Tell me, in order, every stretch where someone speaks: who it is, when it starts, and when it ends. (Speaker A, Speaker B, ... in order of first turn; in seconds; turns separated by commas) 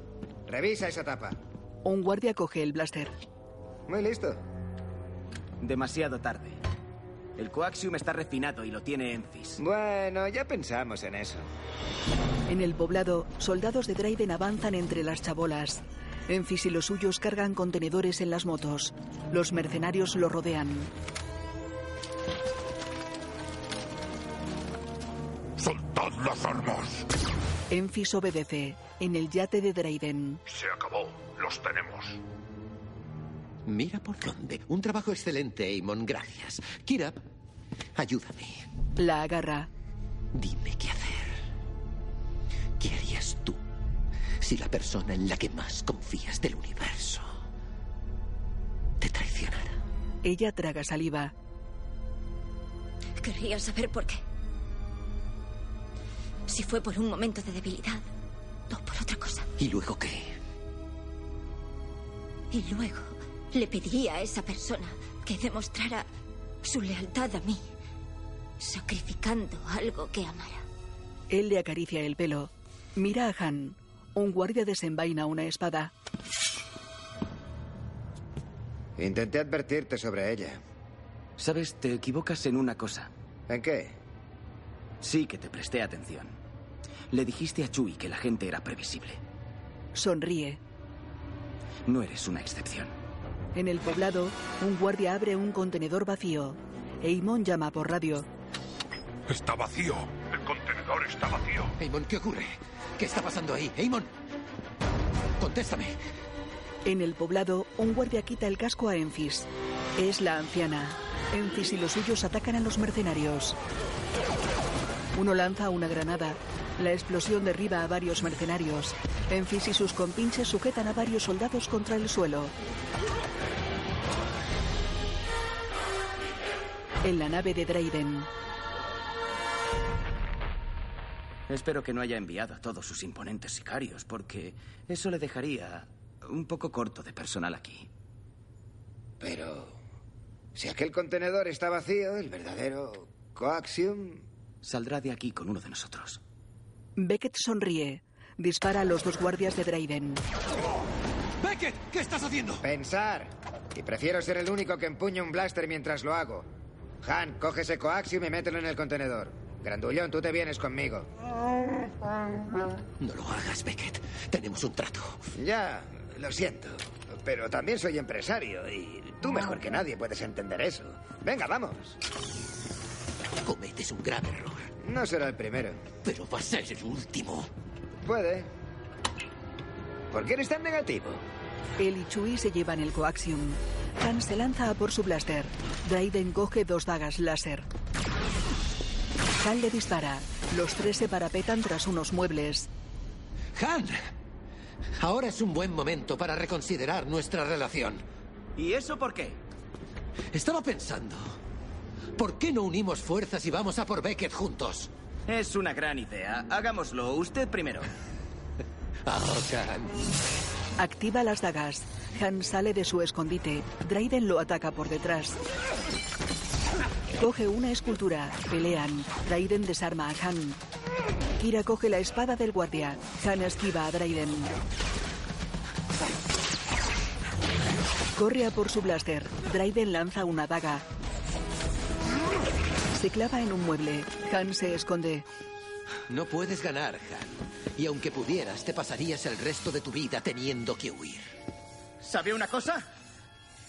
Speaker A: 0.5-1.4, Speaker B: 1.8-3.1, Speaker A: 3.9-4.4, Speaker C: 5.6-6.6, Speaker C: 7.4-9.6, Speaker A: 9.6-11.4, Speaker B: 12.5-20.9, Speaker D: 25.6-27.1, Speaker B: 27.7-30.4, Speaker D: 30.5-32.2, Speaker E: 33.6-37.2, Speaker E: 38.0-38.6, Speaker B: 39.0-39.7, Speaker E: 40.3-41.4, Speaker E: 42.8-43.6, Speaker E: 44.4-47.4, Speaker E: 49.0-49.8, Speaker B: 50.2-51.3, Speaker F: 53.2-54.2, Speaker F: 56.5-58.0, Speaker F: 58.7-59.5, Speaker E: 59.6-60.3, Speaker F: 62.5-66.1, Speaker F: 66.6-67.7, Speaker F: 68.6-70.6, Speaker B: 71.3-75.9, Speaker A: 79.0-80.6, Speaker C: 81.4-83.1, Speaker A: 83.5-83.9, Speaker C: 85.0-86.4, Speaker C: 87.1-89.2, Speaker B: 89.9-90.6, Speaker C: 91.8-93.0, Speaker B: 93.5-98.3, Speaker D: 99.3-101.7, Speaker E: 101.8-104.1, Speaker E: 105.4-106.0, Speaker B: 106.8-113.6, Speaker B: 115.1-122.5, Speaker B: 127.0-128.3, Speaker C: 131.5-137.9, Speaker A: 139.2-139.8, Speaker A: 140.5-144.2, Speaker C: 144.6-146.2, Speaker B: 147.0-150.2, Speaker E: 151.4-152.6, Speaker A: 152.6-156.5, Speaker A: 157.0-161.1, Speaker E: 163.0-165.2, Speaker A: 165.4-171.9, Speaker E: 173.4-174.7, Speaker A: 174.8-175.8, Speaker E: 176.0-177.5, Speaker A: 178.0-178.5, Speaker A: 180.1-181.2, Speaker B: 181.8-187.7, Speaker B: 189.4-192.7, Speaker E: 193.6-194.1, Speaker E: 195.0-198.0, Speaker C: 198.6-199.4, Speaker E: 200.3-201.4, Speaker E: 202.2-204.9, Speaker C: 205.3-207.9, Speaker E: 209.1-210.0, Speaker B: 210.8-215.4, Speaker B: 217.2-220.6, Speaker B: 221.4-224.5, Speaker B: 228.2-230.8, Speaker B: 232.9-235.2, Speaker E: 236.1-241.3, Speaker C: 242.0-242.8